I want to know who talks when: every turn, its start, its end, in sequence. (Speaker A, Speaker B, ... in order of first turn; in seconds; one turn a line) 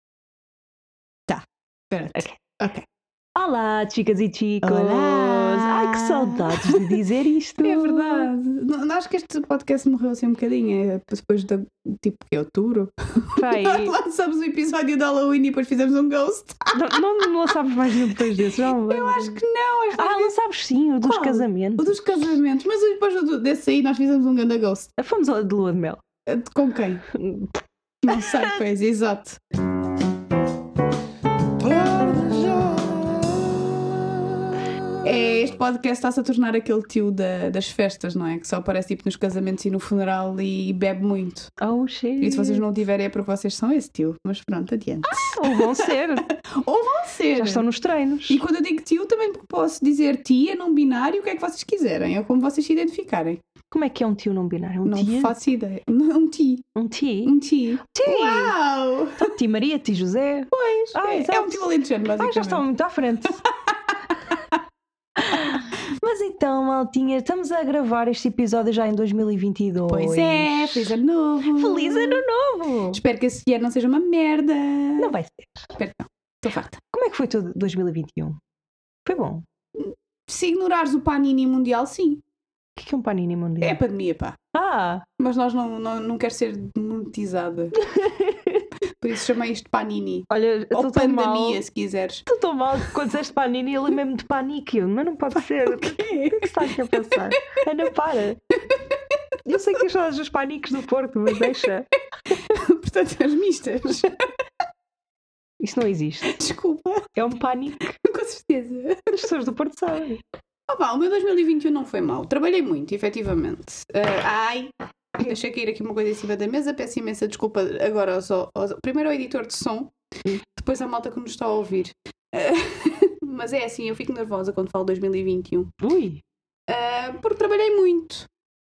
Speaker A: 1.3-2.9
Speaker B: 3.4-8.3
Speaker A: 4.6-7.0
Speaker A: 7.6-17.5
Speaker B: 13.3-13.9
Speaker B: 16.7-19.4
Speaker A: 18.1-20.3
Speaker B: 19.9-21.9
Speaker A: 21.0-24.9
Speaker B: 25.0-26.0
Speaker A: 26.2-27.0
Speaker B: 27.1-28.5
Speaker A: 28.0-29.4
Speaker A: 31.6-32.9
Speaker B: 31.8-33.5
Speaker A: 35.0-41.5
Speaker B: 41.6-42.6
Speaker A: 42.2-47.6
Speaker B: 45.1-46.3
Speaker B: 47.3-48.4
Speaker A: 48.3-53.4
Speaker B: 53.7-55.3
Speaker A: 54.8-56.6
Speaker B: 56.7-57.4
Speaker A: 57.2-59.3
Speaker B: 57.9-58.5
Speaker B: 59.2-61.7
Speaker A: 60.5-62.6
Speaker B: 62.2-63.4
Speaker A: 63.5-64.5
Speaker B: 65.2-71.0
Speaker A: 69.9-72.2
Speaker B: 71.5-73.0
Speaker A: 72.9-75.1
Speaker B: 75.0-75.7
Speaker A: 75.7-76.8
Speaker B: 76.9-78.4
Speaker B: 79.0-79.4
Speaker A: 79.7-82.2
Speaker B: 82.8-83.8
Speaker A: 83.6-84.4
Speaker B: 84.5-85.0
Speaker A: 85.2-87.7
Speaker B: 87.7-88.7
Speaker A: 89.0-92.2
Speaker B: 90.3-91.6
Speaker B: 92.2-98.4
Speaker A: 95.3-97.2
Speaker B: 99.4-101.9
Speaker A: 102.3-104.3
Speaker B: 105.6-106.3
Speaker A: 106.3-107.1
Speaker B: 107.1-108.0
Speaker A: 108.0-109.3
Speaker B: 109.1-110.2
Speaker A: 110.7-119.9
Speaker A: 120.4-125.7
Speaker B: 125.8-126.2
Speaker A: 126.7-128.3